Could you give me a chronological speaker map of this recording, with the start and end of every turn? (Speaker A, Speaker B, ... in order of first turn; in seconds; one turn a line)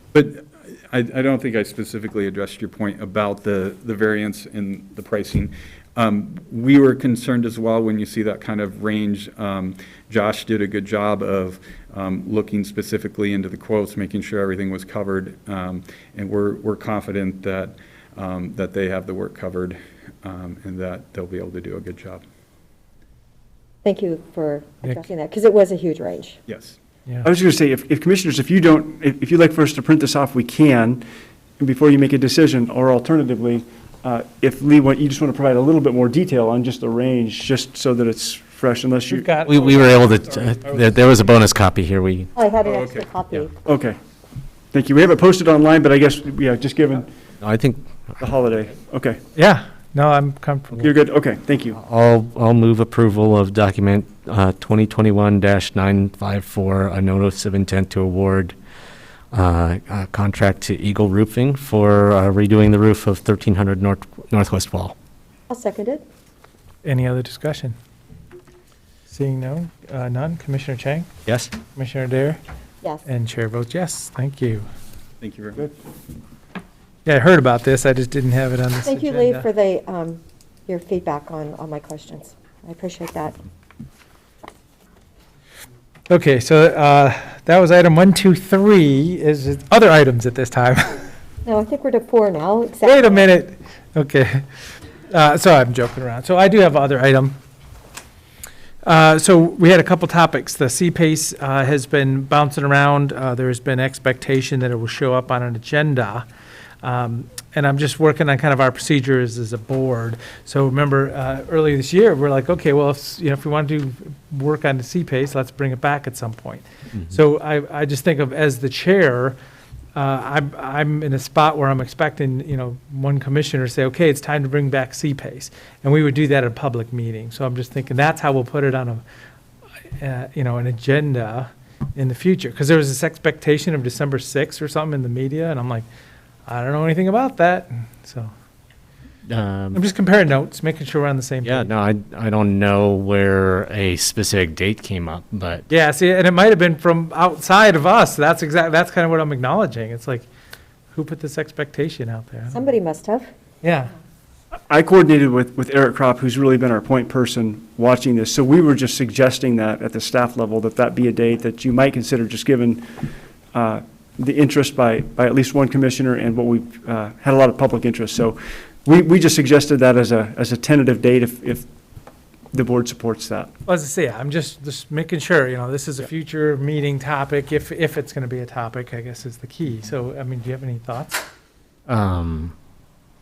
Speaker A: 0.1-22.2
Speaker B: 23.8-26.4
Speaker A: 26.5-26.8
Speaker C: 27.2-31.0
Speaker C: 31.6-39.4
Speaker D: 39.1-40.9
Speaker E: 39.5-42.3
Speaker B: 42.4-43.6
Speaker A: 42.6-43.1
Speaker C: 43.6-44.0
Speaker C: 44.7-47.1
Speaker E: 47.4-48.2
Speaker C: 48.2-49.2
Speaker D: 49.4-51.0
Speaker C: 50.8-51.8
Speaker E: 51.8-58.5
Speaker E: 59.3-65.0
Speaker B: 65.5-66.0
Speaker D: 66.8-67.8
Speaker D: 69.1-71.1
Speaker E: 71.3-71.5
Speaker D: 71.8-72.4
Speaker D: 73.1-74.7
Speaker A: 75.2-75.7
Speaker D: 77.1-79.5
Speaker B: 78.8-83.3
Speaker D: 86.1-91.1
Speaker B: 91.5-93.3
Speaker D: 92.8-94.4
Speaker D: 95.1-97.4
Speaker D: 98.8-106.3
Speaker D: 106.8-119.4
Speaker D: 120.0-129.0
Speaker D: 130.0-135.9
Speaker D: 136.5-138.3
Speaker E: 139.3-139.8
Speaker D: 139.7-141.7
Speaker E: 141.4-145.7
Speaker D: 145.7-150.3
Speaker D: 150.9-152.6
Speaker B: 152.5-153.3
Speaker D: 153.6-153.9
Speaker C: 154.7-163.0
Speaker C: 163.5-171.7
Speaker C: 172.5-173.5
Speaker D: 173.7-181.2
Speaker E: 181.9-182.5